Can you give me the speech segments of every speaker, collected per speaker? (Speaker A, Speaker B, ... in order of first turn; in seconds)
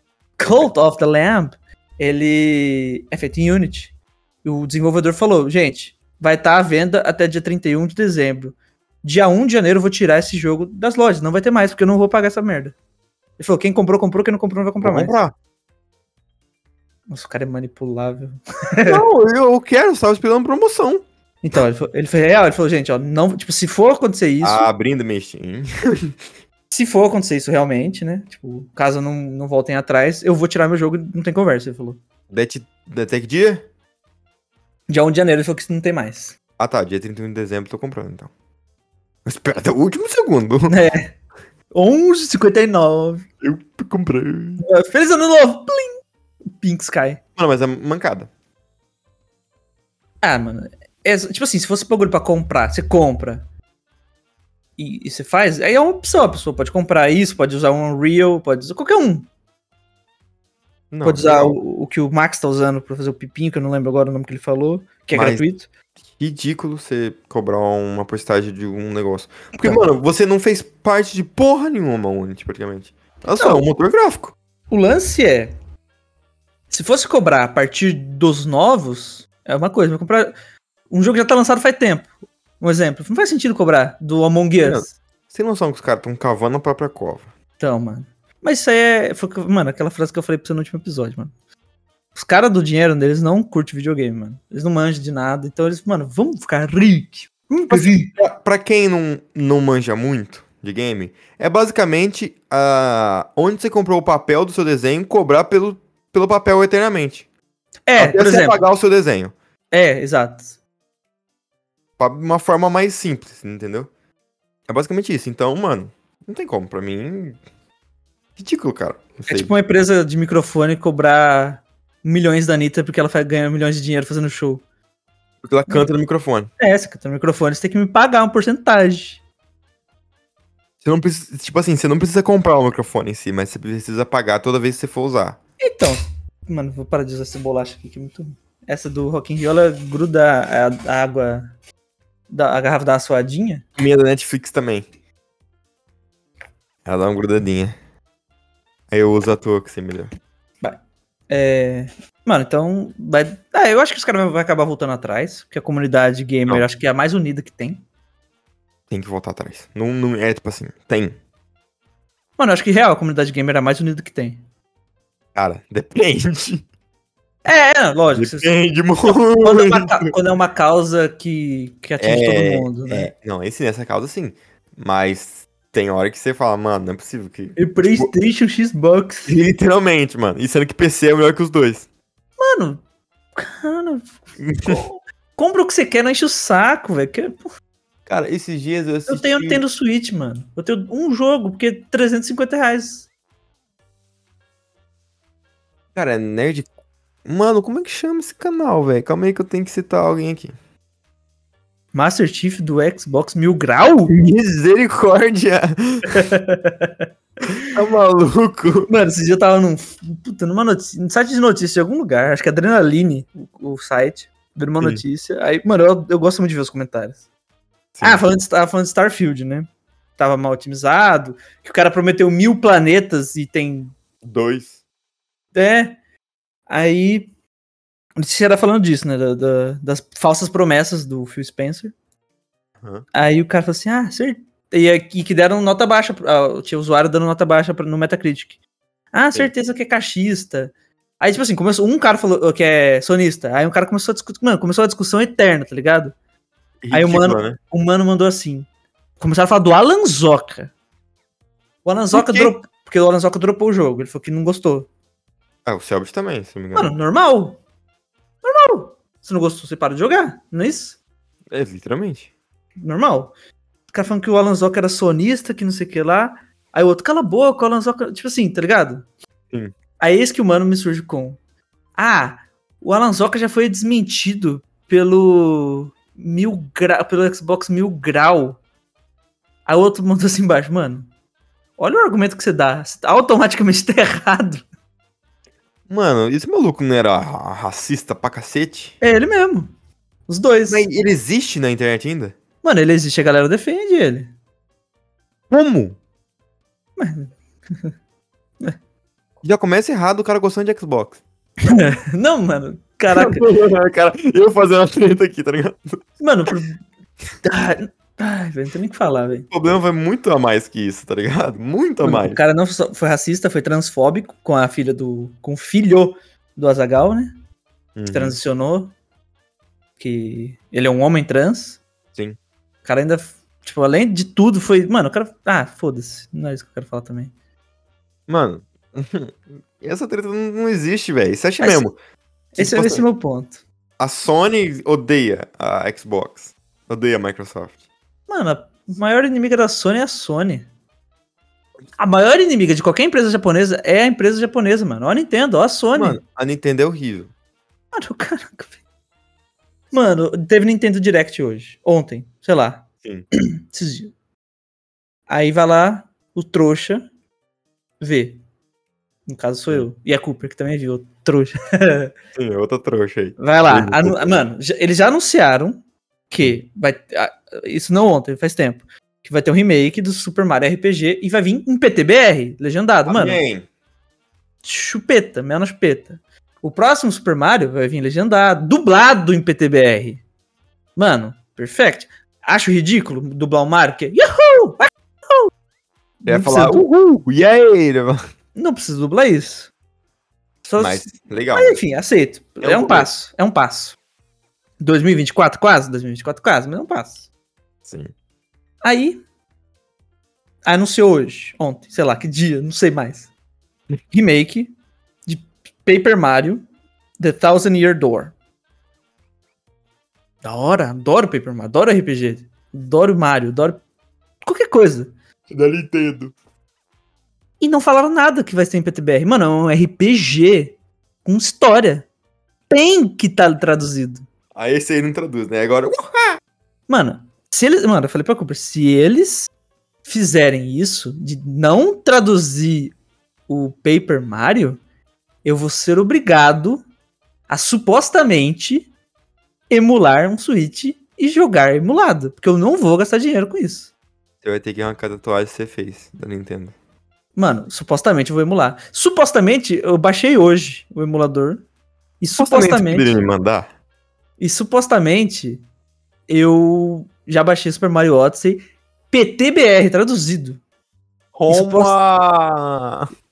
Speaker A: 0.4-12.7, 13.4-15.2, 17.1-19.0, 21.4-24.7, 26.7-32.0, 34.9-36.4, 40.7-41.1, 41.7-43.2, 44.6-45.9, 46.6-47.2, 50.2-53.5, 54.8-59.3, 61.0-65.7, 69.5-69.8, 73.3-73.6, 74.7-75.5, 76.7-80.3, 80.9-84.9, 87.6-91.3, 92.1-98.1, 107.9-108.6, 109.7-110.5, 119.3-124.6, 126.6-129.2, 135.6-141.5, 142.3-143.6, 151.3-157.8, 162.4-164.4, 167.4-168.6, 169.1-173.1, 177.6-179.3, 182.4-182.8, 183.3-187.5, 189.1-193.1, 201.9-204.1, 206.1-207.5, 208.9-217.2, 218.0-223.9, 225.5-226.0, 226.7-227.3, 228.2-231.9, 233.1-238.6, 239.1-246.1, 246.9-248.7, 249.2-250.7, 251.8-254.9, 256.7-257.6, 258.4-261.0, 262.8-263.3, 263.9-269.1, 270.0-271.4, 272.0-278.6, 279.7-281.1, 281.8-284.6, 289.0-289.7, 290.3-290.9, 292.6-294.3, 297.0-297.9, 301.6-303.5, 306.2-306.8, 307.4-309.5, 312.0-317.3, 318.1-318.9, 320.0-321.8, 322.8-327.3, 331.6-331.9, 332.5-333.6, 338.3-340.7, 342.0-346.2, 347.9-348.8, 349.9-354.1, 355.3-357.0, 358.0-358.4, 359.3-362.1, 363.4-373.4, 374.6-380.2, 380.9-385.5, 386.2-386.9, 388.5-389.7, 390.6-394.0, 394.8-397.3, 398.8-399.2, 400.6-403.3, 404.1-404.7, 405.2-406.6, 407.2-408.3, 410.4-413.8, 414.4-415.1, 417.6-422.1, 422.7-424.2, 426.9-429.5, 430.0-432.9, 433.5-434.8, 435.4-436.8, 437.5-438.9, 439.7-443.9, 447.4-451.6, 452.2-453.2, 454.4-455.6, 456.3-460.6, 461.5-461.9
Speaker B: 14.8-15.3, 18.8-21.0, 24.4-26.1, 32.3-33.6, 36.6-38.3, 39.2-40.8, 43.4-44.6, 47.4-48.3, 60.9-61.6, 65.1-65.4, 66.1-74.3, 84.6-87.3, 97.7-107.3, 108.0-109.3, 112.0-113.9, 114.7-117.4, 118.4-119.5, 125.4-126.5, 130.8-135.4, 143.8-144.8, 146.8-147.7, 148.9-150.1, 158.9-161.2, 165.3-166.6, 168.1-170.1, 172.0-178.1, 179.3-181.9, 184.4-184.8, 188.1-189.6, 195.9-196.7, 197.2-200.5, 204.1-206.2, 207.7-208.9, 217.9-218.2, 224.2-224.8, 246.8-247.6, 252.1-252.5, 255.7-256.9, 261.5-262.3, 285.9-289.0, 290.7-292.3, 295.5-296.0, 299.4-301.2, 303.1-306.5, 309.5-312.4, 317.9-318.4, 328.3-331.9, 332.6-333.0, 334.0-337.8, 345.9-347.3, 362.3-364.4, 373.1-373.7, 386.3-388.2, 390.7-391.8, 392.6-393.1, 397.8-398.1, 415.5-416.3, 424.5-426.4, 444.4-446.7, 452.4-453.7, 461.3-463.1